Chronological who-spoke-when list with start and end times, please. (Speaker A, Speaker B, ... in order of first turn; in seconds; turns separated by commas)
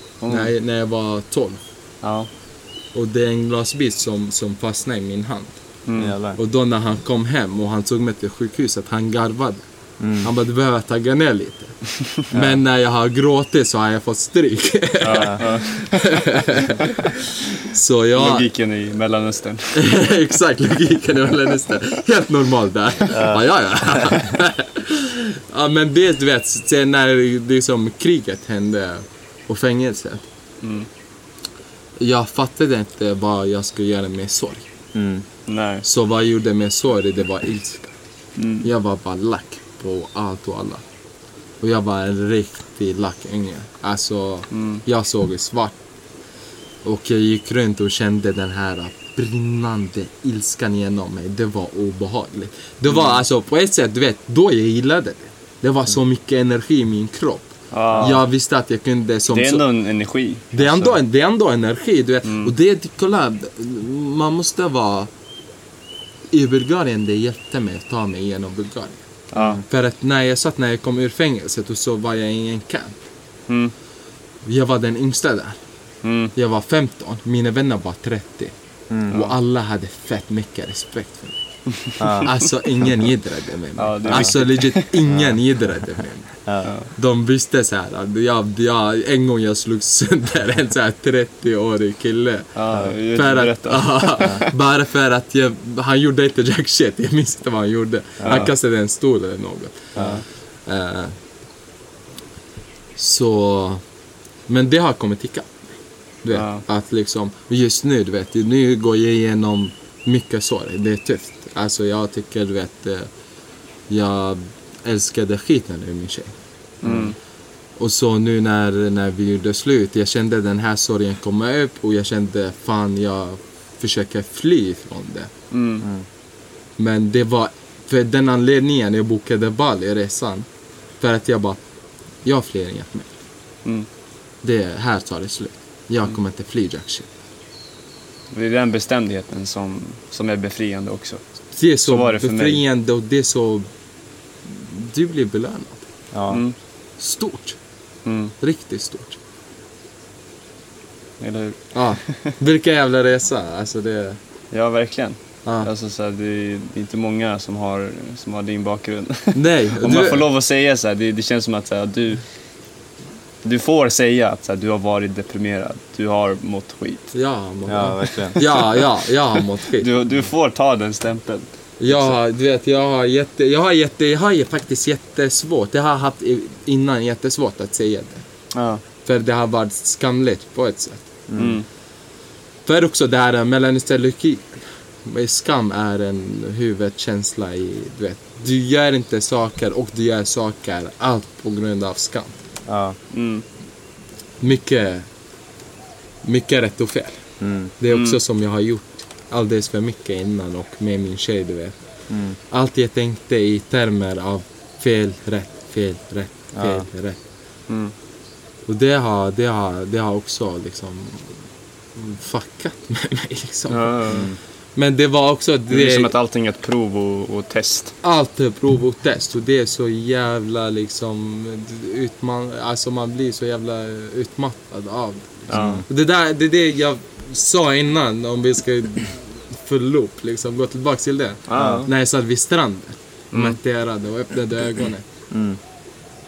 Speaker A: 0.2-0.5, Speaker B: 0.3-1.6, Speaker A: 2.0-2.3, Speaker B: 2.9-5.6, Speaker A: 5.8-6.1, Speaker C: 6.0-6.4, Speaker B: 6.3-9.6, Speaker C: 10.0-10.3, Speaker B: 10.2-18.5, Speaker C: 12.3-12.6, Speaker A: 15.0-15.9, Speaker C: 15.1-15.4, Speaker A: 18.1-20.0, Speaker B: 19.7-30.2, Speaker C: 23.1-23.4, Speaker C: 24.0-24.3, Speaker A: 30.6-30.9, Speaker B: 32.0-34.6, Speaker C: 34.9-35.2, Speaker A: 35.5-35.8, Speaker B: 35.8-38.0, Speaker A: 38.4-38.6, Speaker B: 38.6-40.8, Speaker B: 41.6-45.8, Speaker A: 44.5-44.8, Speaker B: 46.8-59.6, Speaker A: 52.9-53.2, Speaker A: 57.7-58.2, Speaker A: 59.3-61.0, Speaker B: 60.5-65.1, Speaker A: 62.2-62.5, Speaker B: 66.3-69.0, Speaker A: 69.3-69.6, Speaker C: 69.3-69.6, Speaker B: 69.7-73.0, Speaker A: 73.5-73.7, Speaker B: 74.4-75.6, Speaker A: 76.0-76.3, Speaker B: 76.3-78.5, Speaker B: 79.1-81.4, Speaker A: 79.1-79.3, Speaker A: 81.9-82.3, Speaker C: 82.0-82.3, Speaker B: 82.2-86.4, Speaker A: 83.8-84.9, Speaker C: 84.1-84.4, Speaker C: 85.1-85.4, Speaker C: 86.5-86.7, Speaker A: 86.6-86.9, Speaker B: 86.9-101.2, Speaker A: 92.5-94.3, Speaker C: 98.2-98.5, Speaker C: 100.0-100.2, Speaker A: 100.0-100.2, Speaker B: 103.0-103.8, Speaker B: 104.5-105.7, Speaker B: 106.2-113.1, Speaker A: 106.3-106.6, Speaker B: 113.9-116.3, Speaker A: 116.8-117.2, Speaker C: 116.8-117.1, Speaker B: 117.8-125.3, Speaker A: 125.5-125.9, Speaker B: 126.8-130.5, Speaker B: 131.0-131.6, Speaker B: 132.2-133.1, Speaker B: 134.4-137.1, Speaker A: 138.3-141.2, Speaker B: 141.5-143.7, Speaker A: 141.8-142.6, Speaker B: 144.4-145.8, Speaker C: 146.1-146.4, Speaker A: 146.3-146.6, Speaker B: 147.0-147.6, Speaker A: 148.0-148.3, Speaker B: 148.4-149.2, Speaker A: 151.2-152.2, Speaker B: 151.7-154.2, Speaker A: 154.5-162.2, Speaker B: 159.3-160.3, Speaker A: 163.4-167.1, Speaker B: 167.1-169.9, Speaker C: 167.7-168.4, Speaker A: 168.1-168.8, Speaker A: 169.8-172.1, Speaker B: 171.8-178.2, Speaker A: 178.5-178.8, Speaker B: 179.0-181.1, Speaker C: 181.3-181.6, Speaker A: 181.3-181.7, Speaker B: 182.6-192.4, Speaker C: 192.7-192.9, Speaker A: 193.1-193.4, Speaker B: 194.4-195.1, Speaker B: 196.2-197.2, Speaker C: 197.4-197.7, Speaker B: 197.8-201.8, Speaker A: 197.9-198.2, Speaker C: 202.1-202.4, Speaker B: 202.5-207.2, Speaker C: 206.5-206.9, Speaker A: 207.7-207.9, Speaker B: 208.7-211.4, Speaker B: 211.9-214.2, Speaker A: 213.7-214.3, Speaker C: 214.1-214.4, Speaker B: 214.8-216.1, Speaker A: 215.7-217.9, Speaker B: 218.0-235.1, Speaker A: 225.5-225.8, Speaker C: 225.5-225.8, Speaker A: 231.5-231.9, Speaker C: 231.6-231.8, Speaker A: 233.3-233.6, Speaker C: 235.3-235.6